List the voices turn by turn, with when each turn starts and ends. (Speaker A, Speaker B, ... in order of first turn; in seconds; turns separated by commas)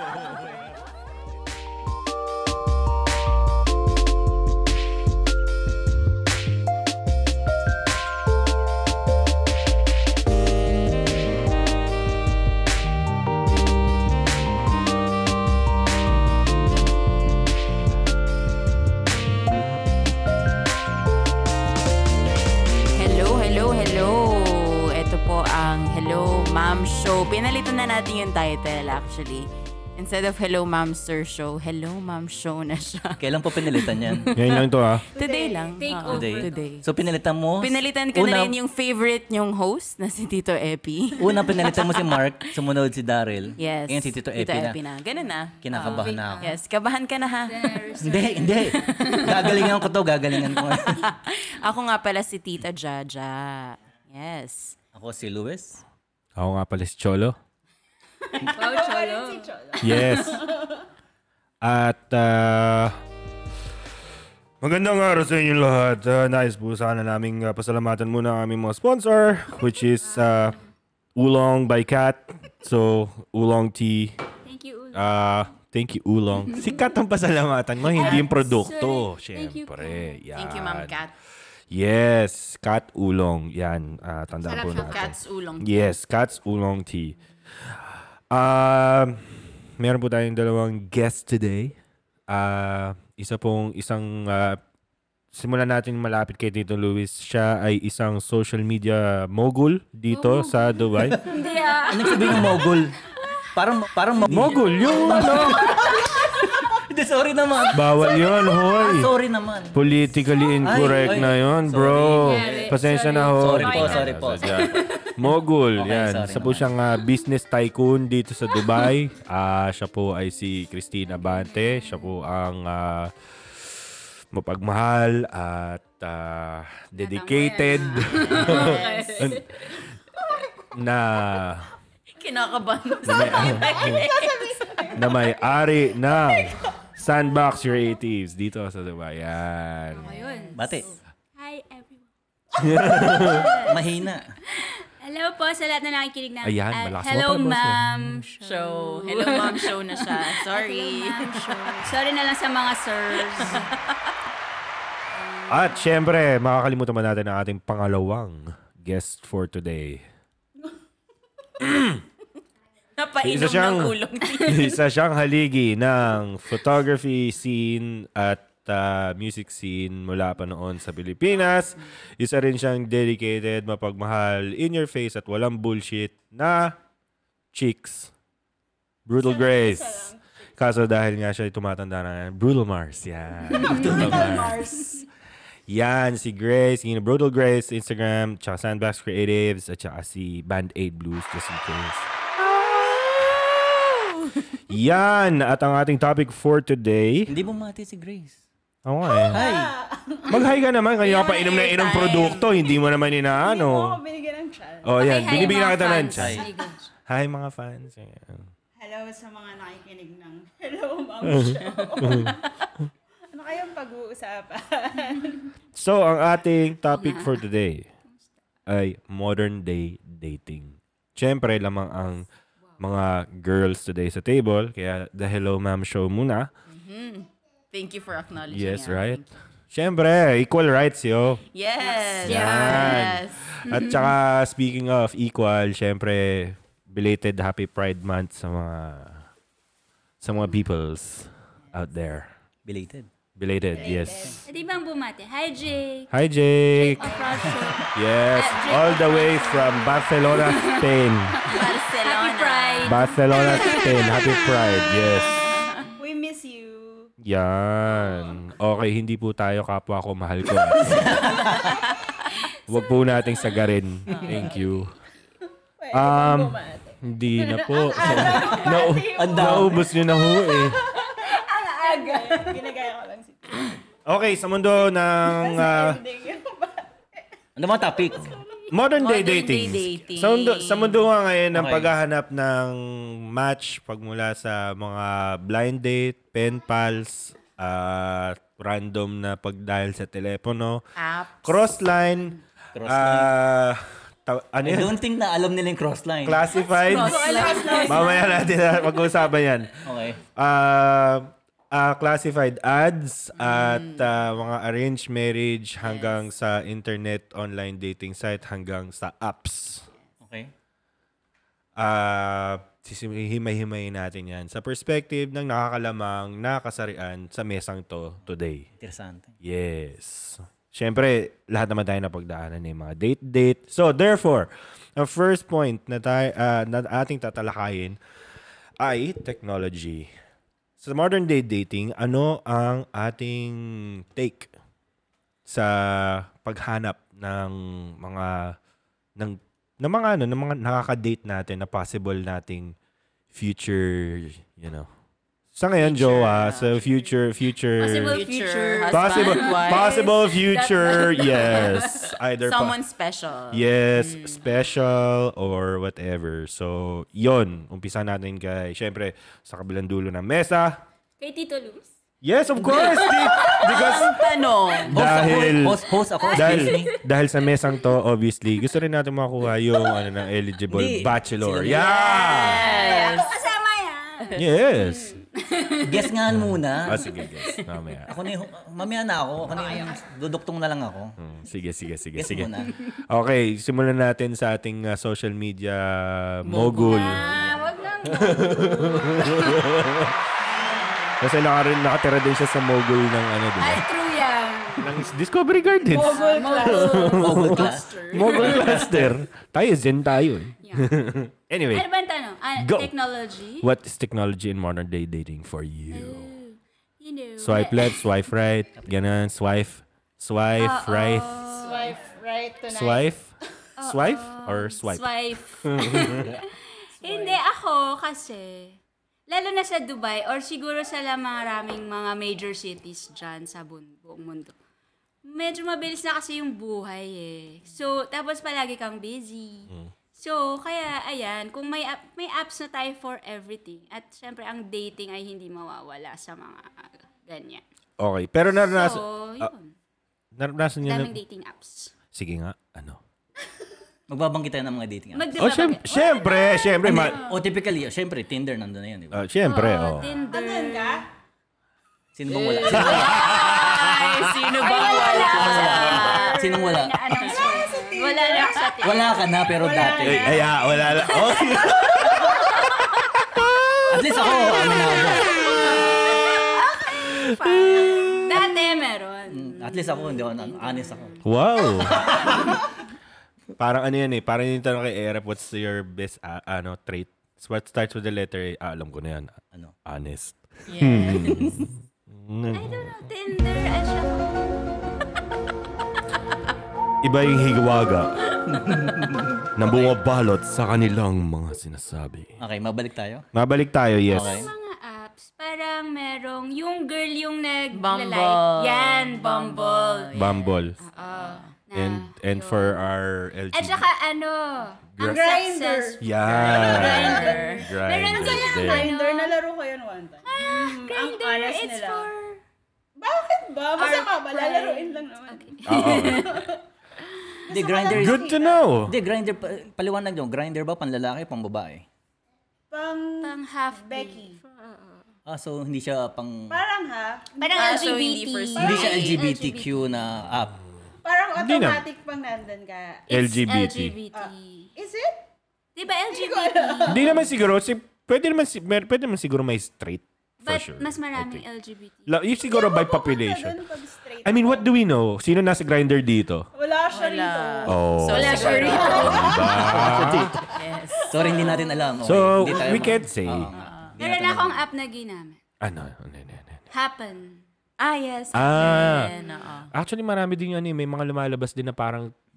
Speaker A: 22.9-29.4, Speaker A: 30.0-34.6, Speaker B: 33.2-34.3, Speaker C: 34.3-35.0, Speaker D: 35.1-35.7, Speaker A: 35.2-36.8, Speaker E: 35.2-36.7, Speaker B: 36.1-38.5, Speaker A: 37.6-42.2, Speaker B: 41.2-44.8, Speaker A: 43.6-47.9, Speaker B: 45.6-46.5, Speaker E: 45.7-46.5, Speaker E: 47.5-49.7, Speaker B: 48.0-51.1, Speaker A: 51.0-54.8, Speaker B: 54.9-55.8, Speaker C: 56.4-57.4, Speaker D: 58.3-60.9, Speaker E: 58.5-60.0, Speaker C: 59.8-60.4, Speaker C: 61.6-63.0, Speaker C: 64.6-70.5, Speaker C: 71.2-74.1, Speaker E: 74.4-75.0, Speaker C: 74.9-81.0, Speaker E: 77.9-80.2, Speaker A: 80.3-81.1, Speaker C: 81.7-91.8, Speaker A: 84.4-85.8, Speaker C: 92.3-94.6, Speaker C: 95.3-101.2, Speaker A: 100.1-100.7, Speaker B: 101.0-101.3, Speaker E: 101.2-102.7, Speaker B: 101.8-103.0, Speaker B: 103.5-108.0, Speaker C: 104.2-105.8, Speaker E: 104.8-106.1, Speaker C: 107.7-109.1, Speaker E: 108.0-108.5, Speaker B: 108.6-109.8, Speaker C: 109.7-129.5, Speaker B: 110.6-112.7, Speaker E: 112.2-115.1, Speaker B: 113.4-114.7, Speaker B: 115.8-116.7, Speaker E: 127.0-129.8, Speaker D: 128.3-130.7, Speaker C: 130.8-131.7, Speaker A: 132.2-134.7, Speaker D: 133.0-135.4, Speaker C: 133.1-134.0, Speaker C: 134.9-140.1, Speaker D: 136.0-136.9, Speaker E: 139.9-142.1, Speaker B: 140.6-141.0, Speaker C: 142.6-143.5, Speaker A: 143.2-143.8, Speaker B: 143.6-144.4, Speaker E: 144.5-153.7, Speaker C: 146.4-147.8, Speaker A: 148.4-151.8, Speaker A: 153.4-154.0, Speaker E: 155.1-155.8, Speaker C: 155.5-160.1, Speaker C: 161.6-162.0, Speaker A: 163.0-164.8, Speaker C: 163.2-163.9, Speaker C: 164.4-176.7, Speaker C: 177.5-178.1, Speaker C: 179.1-184.6, Speaker D: 179.2-180.2, Speaker E: 183.5-184.1, Speaker D: 183.5-185.1, Speaker B: 184.0-184.3, Speaker C: 185.7-193.6, Speaker C: 194.7-197.3, Speaker B: 197.3-198.4, Speaker C: 198.8-199.4, Speaker D: 199.1-200.4, Speaker B: 199.3-199.7, Speaker C: 200.3-204.0, Speaker A: 201.1-202.5, Speaker D: 201.3-202.4, Speaker D: 203.3-205.7, Speaker C: 204.8-206.5, Speaker E: 205.0-206.9, Speaker B: 206.2-206.4, Speaker C: 207.1-208.5, Speaker D: 208.8-212.4, Speaker C: 211.2-212.3, Speaker D: 213.3-215.5, Speaker C: 215.8-217.8, Speaker E: 216.9-217.4, Speaker C: 218.7-222.2, Speaker C: 222.8-226.5, Speaker A: 226.7-229.3, Speaker C: 228.5-231.4, Speaker A: 231.5-233.5, Speaker E: 232.2-233.0, Speaker C: 232.2-239.3, Speaker E: 233.7-234.1, Speaker C: 240.2-242.3, Speaker B: 242.7-243.1, Speaker C: 243.3-244.3, Speaker D: 243.7-244.4, Speaker B: 243.9-244.4, Speaker E: 244.4-246.1, Speaker C: 246.1-247.2, Speaker E: 246.7-250.8, Speaker D: 246.9-247.7, Speaker C: 247.9-251.4, Speaker E: 251.3-254.8, Speaker A: 251.5-253.1, Speaker C: 252.8-255.4, Speaker A: 255.3-255.8, Speaker D: 256.0-257.1, Speaker C: 257.2-261.3, Speaker B: 260.9-261.8, Speaker E: 262.3-263.6, Speaker C: 262.7-264.9, Speaker A: 264.1-264.5, Speaker D: 264.2-264.6, Speaker D: 265.8-273.7, Speaker C: 265.9-270.8, Speaker B: 268.0-269.9, Speaker E: 270.9-272.8, Speaker C: 274.1-276.0, Speaker D: 275.2-277.2, Speaker B: 277.6-278.3, Speaker D: 277.8-278.4, Speaker E: 278.1-278.7, Speaker C: 278.7-290.8, Speaker A: 279.0-281.1, Speaker B: 281.5-281.9, Speaker A: 291.0-291.5, Speaker C: 291.4-294.9, Speaker B: 292.7-293.3, Speaker B: 294.6-296.4, Speaker C: 296.2-297.3, Speaker D: 296.8-298.3, Speaker A: 296.8-298.3, Speaker E: 297.3-298.1, Speaker C: 297.9-299.8, Speaker B: 299.8-300.2, Speaker C: 300.4-309.9, Speaker A: 303.4-304.1, Speaker A: 305.8-306.2, Speaker B: 310.2-310.5, Speaker C: 311.8-318.7, Speaker B: 318.8-319.4, Speaker C: 319.4-328.0, Speaker C: 328.8-330.1, Speaker C: 330.8-334.5, Speaker C: 335.5-338.5, Speaker C: 339.2-342.7, Speaker C: 343.3-344.9, Speaker C: 345.5-348.2, Speaker A: 345.8-347.1, Speaker E: 347.8-352.1, Speaker A: 348.1-350.0, Speaker C: 348.9-352.8, Speaker A: 352.4-354.4, Speaker C: 353.5-360.8, Speaker E: 361.2-361.9, Speaker C: 362.2-364.1, Speaker B: 362.6-362.9, Speaker A: 362.7-364.9, Speaker E: 362.8-364.2, Speaker B: 364.9-366.9, Speaker C: 364.9-372.7, Speaker E: 366.2-367.0, Speaker B: 370.7-372.2, Speaker E: 372.1-376.1, Speaker A: 372.3-373.3, Speaker C: 374.4-375.2, Speaker B: 375.8-377.1, Speaker C: 376.3-378.1, Speaker E: 377.0-377.6, Speaker B: 378.1-381.1, Speaker D: 379.5-380.0, Speaker E: 379.6-379.9, Speaker C: 381.2-382.5, Speaker B: 382.1-382.7, Speaker C: 383.1-387.2, Speaker A: 386.4-387.5, Speaker E: 386.9-389.9, Speaker C: 388.1-390.1, Speaker C: 391.2-393.8, Speaker E: 393.6-394.9, Speaker C: 394.8-401.9, Speaker D: 395.9-397.2, Speaker E: 395.9-398.8, Speaker B: 397.0-399.2, Speaker E: 400.6-400.9, Speaker E: 401.7-403.7, Speaker C: 402.6-402.9, Speaker C: 403.5-406.3, Speaker E: 405.9-408.0, Speaker C: 407.4-411.4, Speaker B: 408.8-409.1, Speaker E: 410.6-412.0, Speaker D: 411.6-413.1, Speaker C: 412.7-413.3, Speaker E: 413.8-416.4, Speaker C: 413.8-416.3, Speaker B: 416.0-416.4, Speaker E: 417.0-418.8, Speaker B: 417.0-417.4, Speaker E: 419.3-424.6, Speaker E: 425.3-437.6, Speaker C: 438.0-439.5, Speaker E: 438.6-439.7, Speaker C: 440.4-441.1, Speaker E: 440.8-441.9, Speaker C: 442.1-443.0, Speaker B: 444.1-445.3, Speaker E: 445.1-446.8, Speaker C: 445.4-447.2, Speaker B: 446.8-449.2, Speaker A: 446.9-447.4, Speaker C: 449.1-450.1, Speaker E: 449.4-451.0, Speaker D: 450.2-451.0, Speaker B: 452.1-453.3, Speaker A: 452.3-456.4, Speaker C: 452.7-454.9, Speaker E: 453.1-453.9, Speaker E: 454.6-459.2, Speaker B: 455.0-457.0, Speaker C: 455.6-456.1, Speaker D: 457.2-458.7, Speaker B: 458.8-460.5, Speaker D: 459.4-461.9, Speaker C: 460.0-464.8, Speaker E: 460.8-461.6, Speaker E: 462.3-463.1, Speaker B: 463.9-465.5, Speaker E: 464.2-472.1, Speaker C: 467.0-468.4, Speaker B: 469.3-471.2, Speaker C: 471.2-472.0, Speaker B: 471.8-472.5, Speaker C: 473.6-482.9, Speaker A: 480.7-481.7, Speaker E: 482.5-484.7, Speaker C: 487.0-488.2, Speaker A: 488.4-488.7, Speaker B: 488.4-489.9, Speaker C: 489.6-492.4, Speaker B: 492.4-493.2, Speaker C: 493.3-494.5, Speaker B: 494.1-494.5, Speaker E: 494.1-500.1, Speaker A: 497.7-501.5, Speaker C: 500.1-500.8, Speaker E: 500.8-502.8, Speaker C: 501.7-503.8, Speaker E: 503.5-509.4, Speaker D: 505.0-512.1, Speaker C: 506.0-508.9, Speaker A: 506.3-507.6, Speaker E: 510.2-512.4, Speaker D: 513.0-516.6, Speaker E: 513.8-516.4, Speaker C: 515.7-516.3, Speaker E: 517.1-517.4, Speaker D: 517.5-518.6, Speaker B: 517.5-518.3, Speaker C: 517.9-518.9, Speaker B: 518.9-521.9, Speaker D: 522.7-524.8, Speaker E: 523.2-524.9, Speaker B: 525.2-526.6, Speaker D: 526.5-527.3, Speaker E: 527.4-529.8, Speaker A: 527.5-529.2, Speaker B: 528.6-530.6, Speaker D: 531.0-533.0, Speaker C: 531.4-531.8, Speaker C: 533.1-533.9, Speaker E: 533.1-534.7, Speaker D: 534.1-535.2, Speaker E: 535.8-537.2, Speaker D: 536.1-537.2, Speaker C: 536.9-541.4, Speaker E: 540.4-542.1, Speaker C: 542.1-543.6, Speaker D: 542.4-544.7, Speaker C: 544.2-546.5, Speaker D: 546.5-549.7, Speaker A: 546.9-551.5, Speaker C: 547.7-550.4, Speaker E: 548.1-549.8, Speaker B: 549.6-550.5, Speaker D: 551.0-551.6, Speaker B: 551.1-554.6, Speaker C: 552.0-553.5, Speaker A: 553.5-553.9, Speaker E: 554.0-555.4, Speaker C: 555.6-556.6, Speaker E: 556.7-557.4, Speaker A: 557.8-559.7, Speaker C: 558.3-559.1, Speaker E: 558.9-559.4, Speaker C: 559.7-562.1